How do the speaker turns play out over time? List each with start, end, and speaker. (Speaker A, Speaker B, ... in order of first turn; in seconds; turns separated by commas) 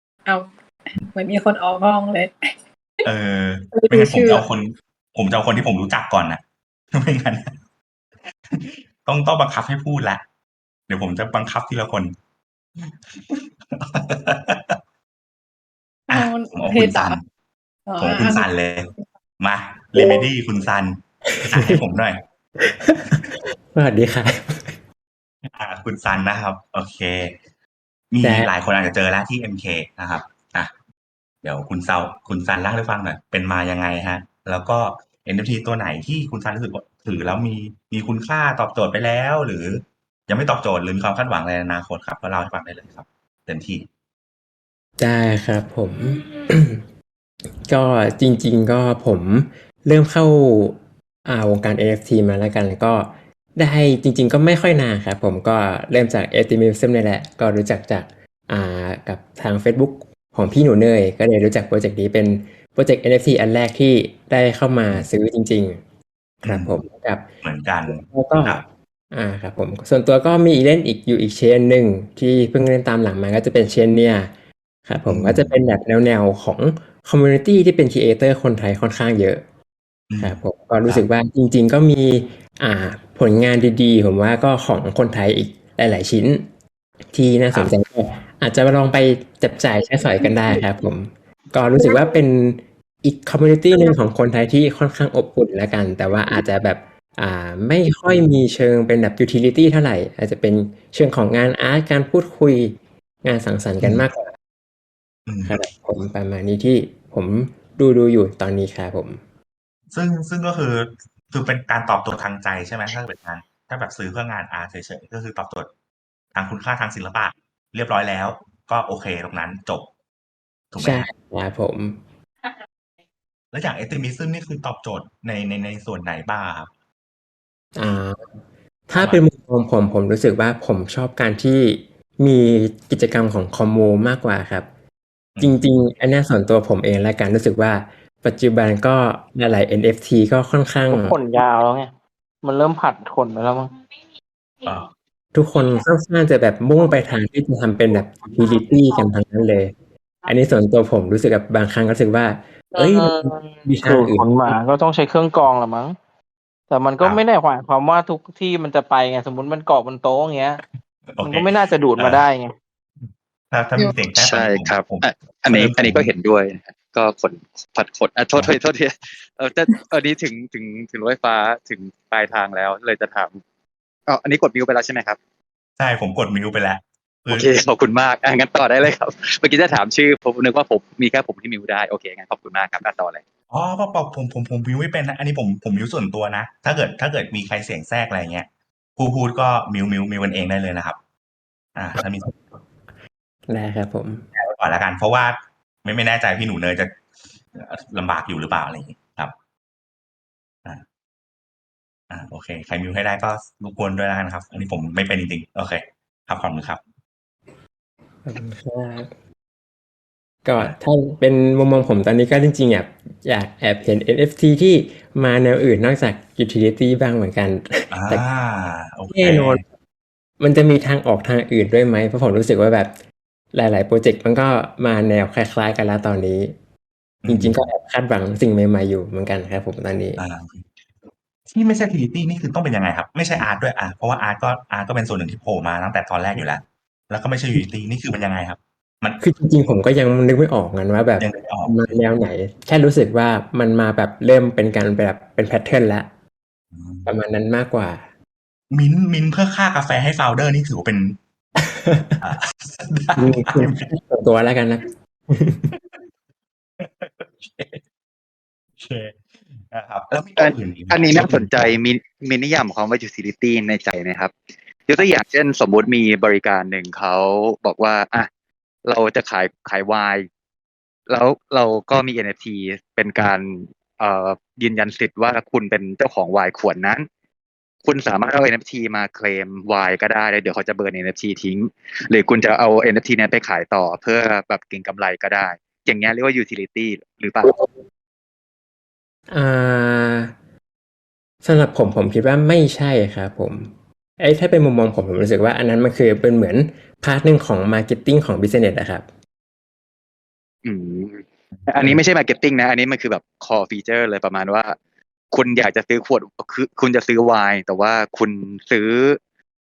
Speaker A: 0.2-2.3, Speaker B: 3.0-6.4, Speaker A: 3.7-4.5, Speaker B: 6.9-7.5, Speaker B: 8.5-10.2, Speaker B: 10.9-12.1, Speaker B: 12.8-14.7, Speaker A: 16.1-17.2, Speaker B: 16.1-17.2, Speaker A: 17.9-18.5, Speaker B: 18.0-18.9, Speaker B: 19.4-22.2, Speaker C: 21.3-21.8, Speaker C: 22.6-24.8, Speaker B: 25.5-27.3, Speaker B: 28.1-30.7, Speaker C: 28.2-28.5, Speaker B: 31.4-43.9, Speaker C: 45.0-46.8, Speaker C: 47.7-65.8, Speaker C: 66.4-67.3, Speaker B: 66.4-66.8, Speaker B: 67.4-68.6, Speaker C: 67.8-74.3, Speaker C: 74.8-79.4, Speaker B: 75.1-75.6, Speaker B: 80.1-81.0, Speaker C: 80.2-86.5, Speaker C: 87.1-104.3, Speaker A: 91.8-92.1, Speaker B: 105.2-105.6, Speaker C: 105.5-109.2, Speaker B: 109.9-115.7, Speaker B: 116.3-119.9, Speaker B: 120.7-121.1, Speaker C: 120.8-122.0, Speaker B: 123.5-126.7, Speaker C: 127.8-134.7, Speaker B: 128.9-129.2, Speaker B: 135.3-135.6, Speaker C: 135.4-141.2, Speaker D: 140.9-143.7, Speaker C: 145.3-154.6, Speaker D: 152.7-156.0, Speaker D: 156.7-160.6, Speaker B: 157.0-157.2, Speaker B: 161.1-162.3, Speaker D: 161.2-162.5, Speaker B: 163.5-166.1, Speaker A: 163.8-164.1, Speaker E: 164.2-173.4, Speaker E: 174.1-175.2, Speaker B: 175.8-177.5, Speaker E: 177.3-183.2, Speaker B: 183.5-191.0, Speaker B: 191.7-192.4, Speaker C: 193.5-194.3, Speaker B: 194.4-196.9, Speaker B: 197.5-199.3, Speaker B: 202.1-206.8, Speaker C: 208.2-209.1, Speaker C: 210.4-218.2, Speaker B: 217.9-219.6, Speaker C: 219.1-219.7, Speaker C: 220.4-223.0, Speaker C: 223.5-226.6, Speaker B: 227.2-227.6, Speaker C: 227.2-230.2, Speaker B: 230.2-230.7, Speaker B: 231.5-239.2, Speaker C: 239.2-246.1, Speaker B: 241.2-242.1, Speaker B: 246.7-247.1, Speaker C: 247.1-248.1, Speaker B: 248.7-251.2, Speaker C: 251.6-252.2, Speaker B: 252.2-253.8, Speaker C: 253.2-255.7, Speaker B: 255.7-256.0, Speaker B: 256.8-257.8, Speaker B: 258.8-261.8, Speaker E: 260.4-264.3, Speaker E: 264.9-268.3, Speaker E: 268.8-270.3, Speaker E: 271.1-277.1, Speaker E: 277.8-287.6, Speaker C: 289.3-290.3, Speaker C: 291.4-299.1, Speaker E: 300.6-304.8, Speaker B: 301.6-302.0, Speaker E: 305.3-309.2